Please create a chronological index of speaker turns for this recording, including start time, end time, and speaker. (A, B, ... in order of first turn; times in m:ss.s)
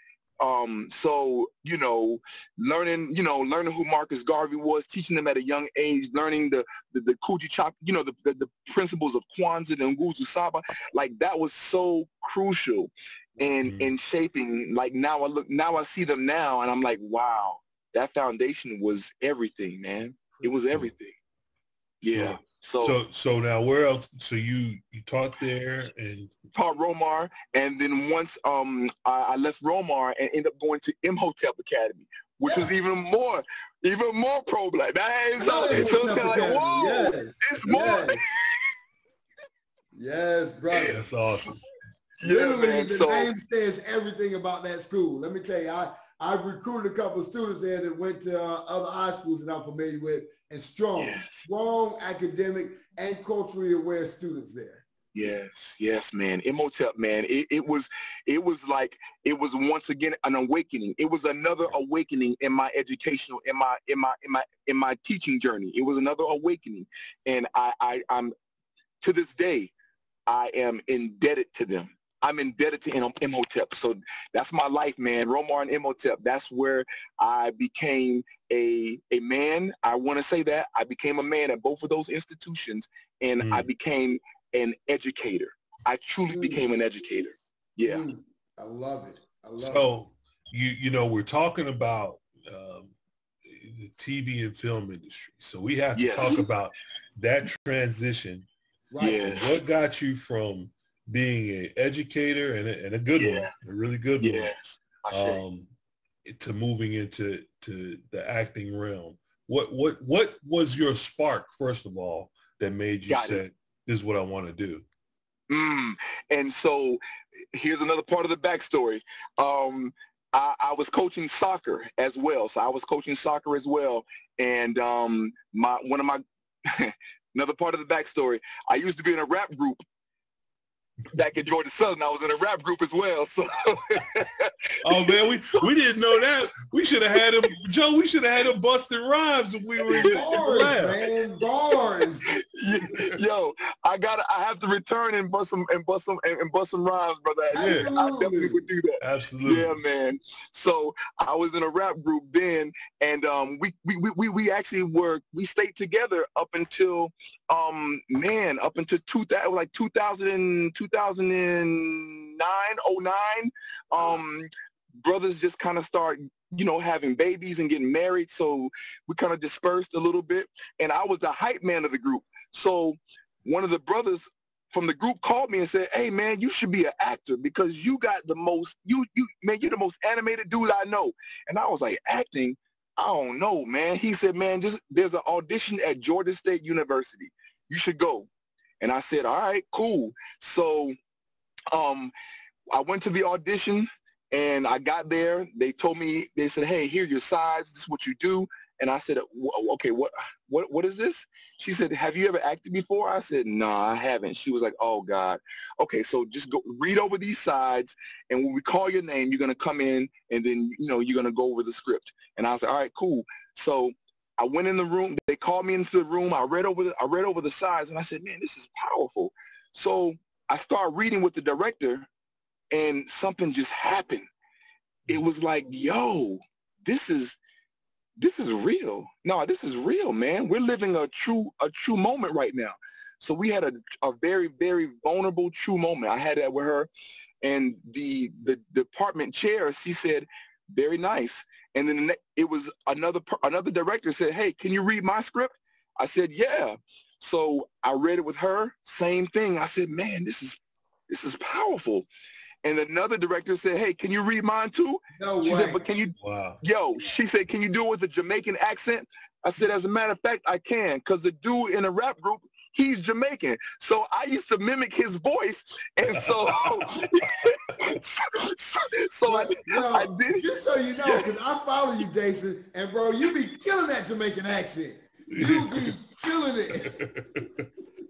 0:00.4-0:21.2 A
0:13.6-0:13.9 B
0:22.0-0:23.0 A
0:22.0-0:26.3 B
0:26.5-0:38.6 A
0:32.4-0:32.7 C
0:35.4-0:38.2 C
0:35.7-0:36.1 B
0:39.9-0:41.0 C
0:40.7-0:41.6 A
0:40.9-0:41.6 B
0:42.2-0:43.3 A
0:42.2-0:54.8 C
0:51.0-0:51.5 A
0:55.1-1:08.3 A
1:09.0-1:09.7 A
1:10.3-1:28.0 A
1:23.4-1:23.7 B
1:26.3-1:26.6 C
1:27.8-1:29.9 C
1:29.6-1:32.9 B
1:33.4-1:38.5 B
1:36.0-1:36.4 A
1:38.9-1:39.3 C
1:39.0-1:39.6 A
1:39.2-1:44.5 B
1:43.2-1:43.5 A
1:44.2-1:45.4 A
1:45.1-1:45.7 B
1:46.2-1:54.8 B
1:53.1-1:53.4 A
1:55.5-1:57.0 A
1:57.5-2:09.8 A
2:11.1-2:15.7 A
2:14.8-2:21.0 B
2:20.0-2:22.3 C
2:22.3-2:44.5 A
2:27.5-2:28.6 C
2:27.6-2:27.9 B
2:29.0-2:29.8 B
2:45.0-3:08.3 A
3:08.8-3:11.0 A
3:11.7-3:12.1 A
3:12.7-3:42.1 A
3:42.7-3:44.3 A
3:45.1-3:47.4 A
3:48.2-3:56.9 A
3:57.4-4:10.6 A
4:11.1-4:12.1 A
4:12.6-4:30.4 A
4:15.2-4:15.8 C
4:16.2-4:16.6 B
4:26.2-4:26.9 B
4:29.3-4:37.0 C
4:31.0-4:31.3 A
4:35.3-4:36.0 B
4:36.8-4:37.7 B